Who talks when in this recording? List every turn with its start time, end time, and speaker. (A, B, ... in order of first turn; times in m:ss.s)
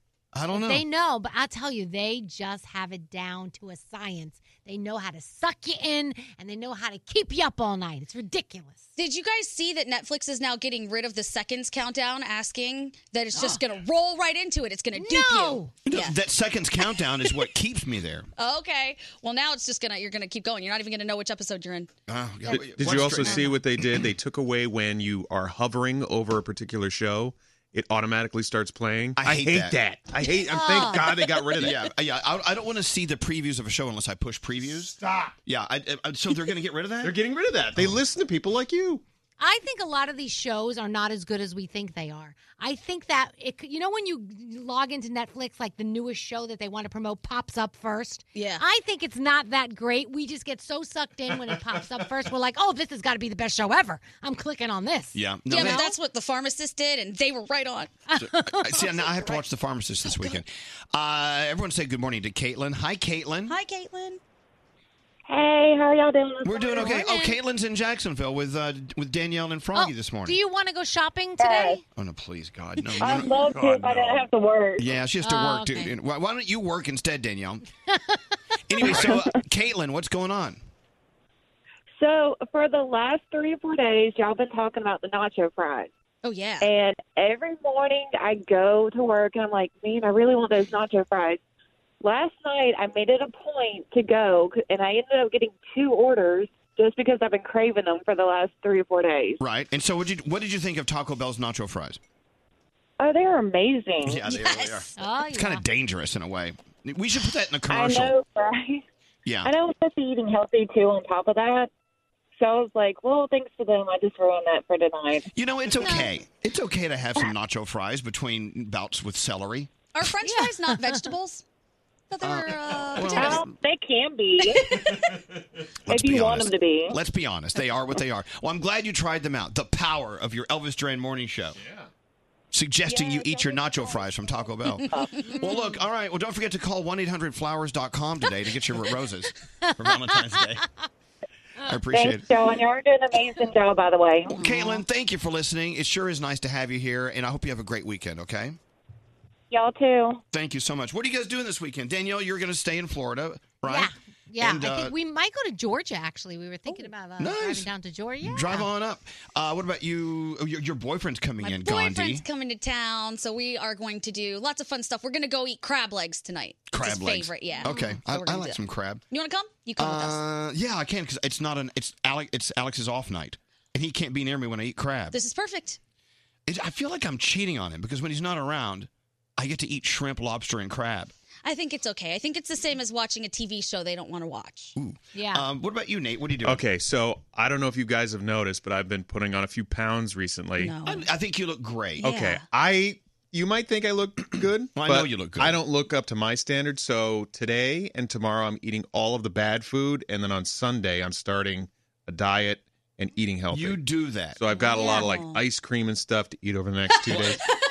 0:00.3-0:00.8 A
0:00.5-0:08.9 B
0:09.0-0:16.2 C
0:14.9-0:15.8 B
0:15.8-0:18.3 A
0:18.4-0:21.9 C
0:22.1-0:23.9 A
0:22.5-0:23.6 B
0:22.5-0:31.9 D
0:29.2-0:29.8 A
0:30.4-0:31.5 B
0:31.6-0:37.2 A
0:37.0-0:39.0 D
0:39.4-0:56.0 B
0:48.3-0:48.6 C
0:55.1-0:55.8 A
0:55.5-0:58.0 C
0:58.1-0:59.3 B
0:58.2-1:03.6 A
1:03.5-1:04.2 C
1:05.3-1:07.0 E
1:06.4-1:10.4 A
1:06.8-1:07.4 B
1:09.7-1:11.8 B
1:11.4-1:11.8 E
1:11.9-1:13.6 A
1:13.0-1:14.8 E
1:14.8-1:17.6 A
1:15.2-1:15.9 B
1:18.7-1:20.6 A
1:22.0-1:25.9 E
1:26.2-1:26.7 C
1:26.6-1:31.4 E
1:32.0-1:39.4 E
1:39.4-1:42.0 A
1:43.0-1:44.2 E
1:44.0-1:48.2 A
1:44.3-1:44.8 C
1:45.0-1:45.6 B
1:47.7-1:48.8 E
1:49.2-1:49.5 A
1:49.4-1:51.7 E
1:52.4-1:55.3 E
1:55.3-1:59.7 A
1:59.9-2:01.4 C
2:00.2-2:01.0 B
2:02.1-2:03.4 C
2:02.2-2:03.5 A
2:03.1-2:04.9 E
2:05.8-2:11.6 A
2:05.9-2:07.0 E
2:12.5-2:20.6 A
2:12.9-2:14.1 E
2:15.4-2:15.7 B
2:19.9-2:20.4 B
2:21.6-2:22.3 A
2:21.9-2:24.4 E
2:24.3-2:28.6 A
2:24.4-2:24.8 C
2:29.5-2:30.2 E
2:30.3-2:34.9 A
2:33.6-2:38.7 B
2:37.2-2:37.7 A
2:38.2-2:42.2 A
2:41.4-2:50.2 C
2:46.7-2:49.0 A
2:49.8-2:55.2 A
2:55.1-2:55.8 C
2:56.5-3:01.1 A
3:01.4-3:04.7 C
3:04.8-3:06.6 A
3:05.1-3:05.4 B
3:06.4-3:10.7 D
3:10.6-3:11.0 C
3:10.8-3:12.0 A
3:12.0-3:12.4 C
3:12.0-3:23.8 D
3:14.7-3:15.6 A
3:23.5-3:25.0 A
3:24.4-3:27.4 D
3:24.5-3:25.4 C
3:27.0-3:27.4 C